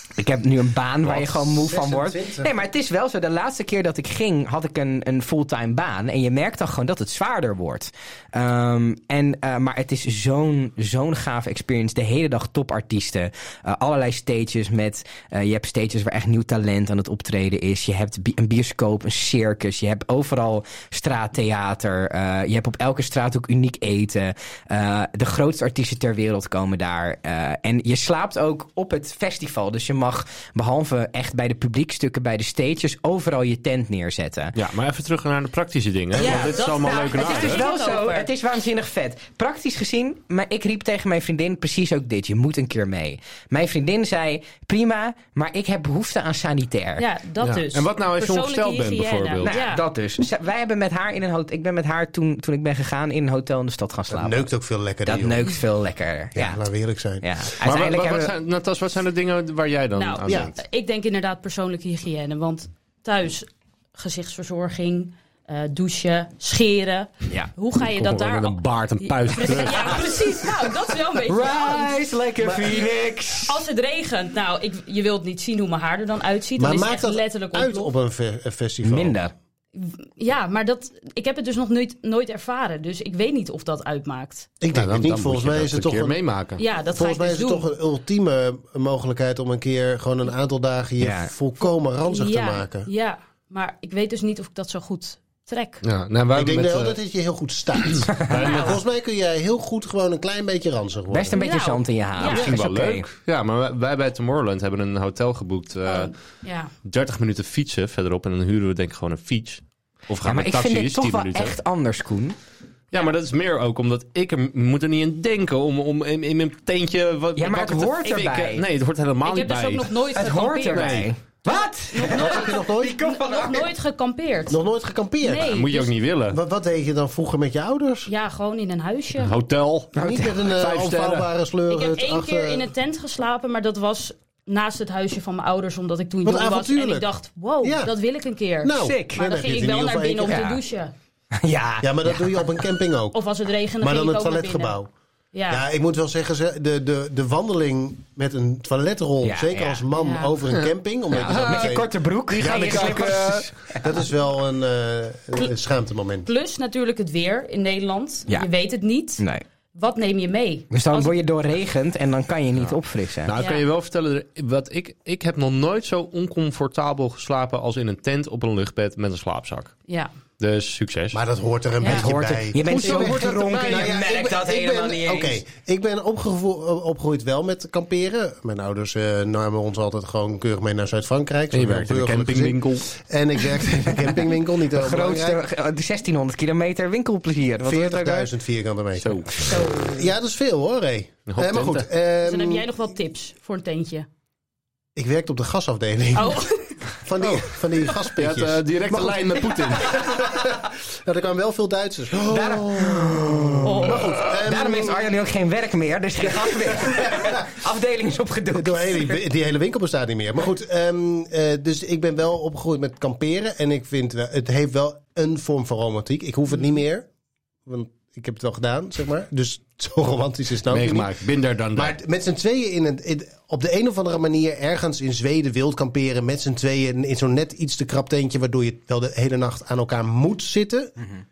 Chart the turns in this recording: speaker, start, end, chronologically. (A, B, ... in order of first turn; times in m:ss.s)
0:00.2-0:34.6 A
0:01.0-0:02.5 B
0:34.6-0:37.7 C
0:36.1-0:38.3 D
0:36.3-0:47.0 A
0:47.0-0:49.8 D
0:47.4-0:49.6 C
0:49.4-0:54.5 A
0:54.1-0:55.5 B
0:55.0-0:56.6 A
0:56.3-0:57.2 B
0:57.2-0:58.3 A
0:57.6-1:00.6 C
1:00.0-1:12.1 D
1:07.8-1:10.2 C
1:11.3-1:13.6 A
1:12.4-1:12.8 B
1:13.5-1:17.9 D
1:16.6-1:19.2 B
1:18.8-1:19.3 A
1:19.7-1:24.5 D
1:24.6-1:26.2 B
1:24.7-1:26.6 C
1:26.6-1:27.6 D
1:26.9-1:32.9 B
1:31.0-1:31.3 A
1:32.1-1:35.8 D
1:35.8-1:37.0 C
1:36.3-1:41.4 B
1:38.0-1:38.8 C
1:38.4-1:38.8 D
1:41.1-1:43.1 A
1:41.3-1:42.5 D
1:42.2-1:46.2 C
1:45.8-1:46.7 D
1:46.8-1:51.6 C
1:50.2-1:52.4 A
1:52.9-2:00.0 C
1:57.4-1:58.6 A
1:59.2-2:04.6 D
2:00.1-2:03.7 A
2:00.7-2:01.1 C
2:02.0-2:03.0 B
2:04.5-2:05.6 B
2:05.2-2:05.9 D
2:05.4-2:06.4 C
2:06.3-2:08.1 B
2:08.0-2:09.4 D
2:09.2-2:11.3 C
2:09.9-2:12.7 B
2:10.0-2:10.4 A
2:11.7-2:20.9 D
2:16.2-2:17.1 B
2:17.6-2:17.9 B
2:18.6-2:20.5 B
2:18.8-2:19.2 A
2:20.2-2:20.6 A
2:21.4-2:22.6 A
2:21.8-2:23.2 B
2:23.1-2:24.7 D
2:23.8-2:24.9 B
2:25.3-2:25.6 D
2:25.5-2:36.3 B
2:29.2-2:29.8 A
2:30.0-2:30.3 D
2:30.5-2:33.5 C
2:31.1-2:33.8 A
2:36.2-2:39.2 D
2:39.7-2:41.1 D
2:40.7-2:43.3 A
2:42.6-2:49.8 C
2:43.4-2:43.6 D
2:50.4-2:51.2 C
2:51.1-3:05.4 B
2:51.8-2:52.1 D
2:51.8-2:55.4 A
2:52.6-2:53.9 C
3:01.5-3:02.9 C
3:04.7-3:08.3 A
3:07.6-3:12.7 B
3:09.0-3:09.6 C
3:09.4-3:10.1 D
3:11.3-3:11.9 C
3:12.2-3:14.1 D
3:15.0-3:16.5 B
3:16.1-3:17.3 D
3:17.0-3:25.1 B
3:18.2-3:20.1 C
3:22.3-3:29.2 A
3:23.6-3:24.2 D
3:26.2-3:27.4 B
3:28.5-3:37.1 B
3:37.6-3:41.2 B
3:40.7-3:42.0 C
3:41.7-3:51.0 B